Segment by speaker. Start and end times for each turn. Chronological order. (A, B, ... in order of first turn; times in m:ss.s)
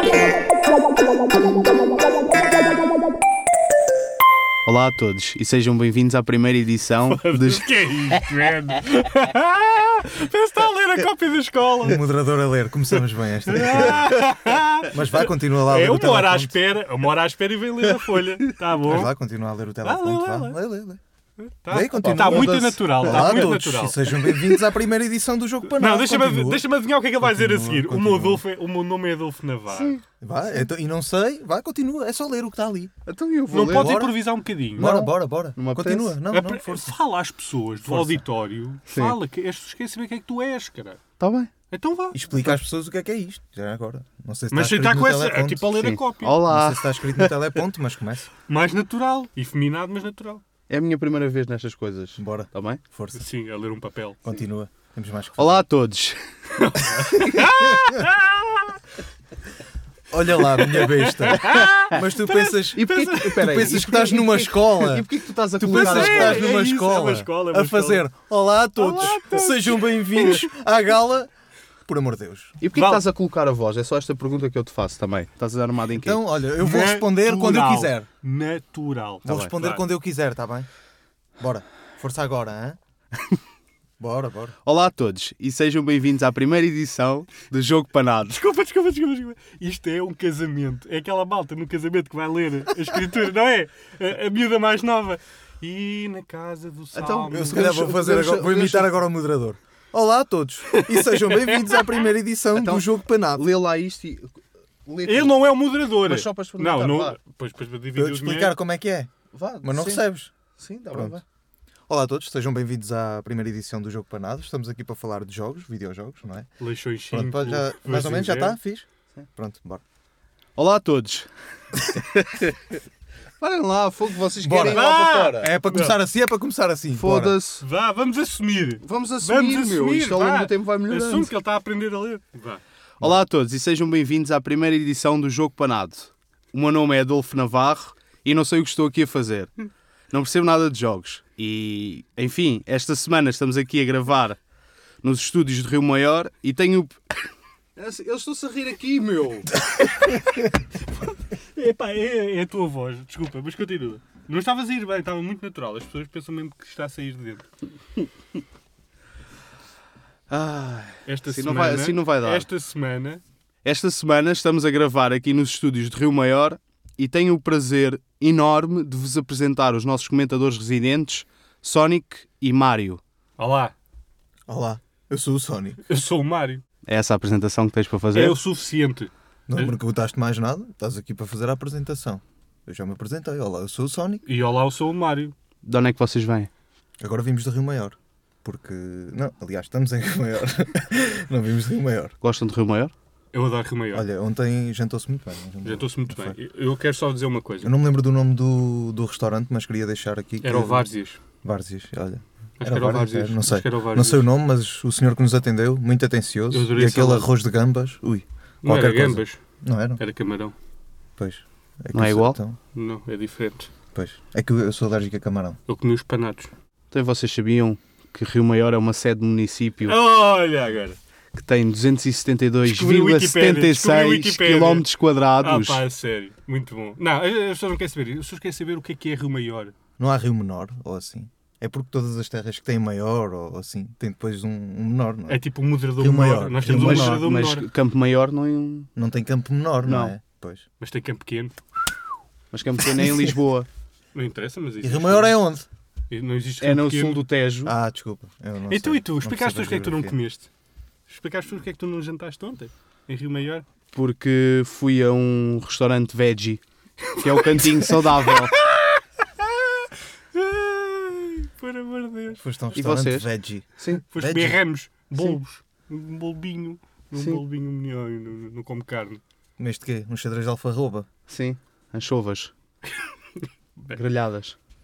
0:04.6-0:07.6 A
0:07.1-0:12.0 B
0:11.8-0:14.1 C
0:12.9-0:19.1 B
0:14.9-0:16.5 C
0:18.8-0:21.0 C
0:19.8-0:20.6 B
0:21.4-0:24.5 B
0:21.7-0:26.6 C
0:22.0-0:23.2 A
0:25.7-0:30.0 B
0:27.2-0:28.4 C
0:29.7-0:30.0 A
0:30.2-0:32.9 C
0:33.0-0:34.0 A
0:33.5-0:35.1 B
0:33.6-0:34.2 C
0:34.7-0:37.0 C
0:35.5-0:36.2 A
0:36.3-0:41.0 B
0:37.8-0:38.2 C
0:38.9-0:39.2 A
0:41.2-0:41.5 A
0:41.7-0:42.2 B
0:42.1-0:45.7 C
0:44.5-0:46.4 B
0:45.7-0:47.6 A
0:46.4-0:48.3 C
0:48.5-0:50.4 B
0:50.7-0:52.8 A
0:52.2-0:53.2 C
0:53.1-0:54.2 B
0:54.2-0:55.7 C
0:55.4-0:56.2 A
0:56.5-0:58.8 B
0:57.0-0:58.0 C
1:00.1-1:11.3 C
1:00.5-1:03.5 B
1:01.4-1:02.0 A
1:02.7-1:06.6 A
1:05.6-1:08.1 B
1:08.8-1:10.4 A
1:09.1-1:09.4 B
1:11.8-1:12.6 C
1:12.6-1:16.2 A
1:12.7-1:13.0 B
1:15.9-1:18.1 C
1:16.6-1:19.8 B
1:19.2-1:20.7 C
1:19.3-1:19.5 A
1:21.4-1:22.8 C
1:24.0-1:24.5 C
1:24.6-1:28.4 A
1:28.3-1:37.7 B
1:36.9-1:39.0 A
1:37.3-1:43.5 C
1:40.7-1:42.0 B
1:42.5-1:45.4 A
1:45.0-1:48.6 B
1:46.0-1:47.2 A
1:47.9-1:50.3 C
1:49.3-1:50.1 A
1:50.6-1:51.2 A
1:50.9-1:51.2 C
1:51.9-1:56.5 C
1:56.6-1:58.6 B
1:57.1-1:59.8 C
2:00.6-2:01.3 A
2:01.9-2:02.6 A
2:03.4-2:05.5 A
2:04.4-2:07.4 C
2:04.6-2:06.0 B
2:06.9-2:07.6 A
2:07.6-2:12.6 B
2:08.8-2:11.3 A
2:13.0-2:19.5 A
2:20.1-2:24.4 A
2:25.0-2:27.0 A
2:27.8-2:29.5 A
2:29.7-2:37.5 B
2:40.3-2:42.5 A
2:41.0-2:43.2 B
2:43.6-2:53.0 A
2:53.4-2:53.7 B
2:54.5-2:55.8 C
2:55.8-2:56.6 B
2:56.9-2:58.4 A
2:58.1-2:59.8 B
2:59.5-3:04.2 C
3:04.2-3:05.3 B
3:05.6-3:06.5 A
3:07.0-3:12.1 C
3:12.2-3:12.9 A
3:13.3-3:14.1 B
3:13.9-3:16.4 C
3:15.6-3:17.8 B
3:17.6-3:20.8 C
3:20.4-3:21.2 B
3:21.4-3:30.0 C
3:22.6-3:24.3 B
3:26.5-3:27.3 B
3:28.6-3:29.4 B
3:30.0-3:30.5 B
3:31.2-3:32.6 C
3:31.9-3:32.4 A
3:32.7-3:33.7 B
3:33.9-3:35.6 C
3:35.7-3:36.5 B
3:36.9-3:40.0 A
3:39.8-3:41.0 B
3:41.3-3:45.8 A
3:42.6-3:49.7 B
3:50.0-3:57.2 C
3:55.3-3:57.6 B
3:56.8-3:58.9 A
3:59.0-4:00.6 C
3:59.8-4:00.2 A
4:00.8-4:01.5 B
4:02.5-4:03.7 A
4:03.0-4:03.3 C
4:04.1-4:05.4 B
4:04.8-4:05.6 C
4:06.1-4:07.2 B
4:06.6-4:07.7 A
4:07.6-4:10.2 C
4:08.7-4:10.5 B
4:11.1-4:13.6 B
4:13.9-4:16.6 A
4:17.0-4:22.4 B
4:17.2-4:18.6 A
4:22.3-4:24.6 C
4:22.7-4:24.1 A
4:24.1-4:29.2 B
4:27.1-4:27.4 A
4:29.6-4:31.1 C
4:31.3-4:32.5 A
4:32.9-4:33.4 B
4:33.8-4:34.6 A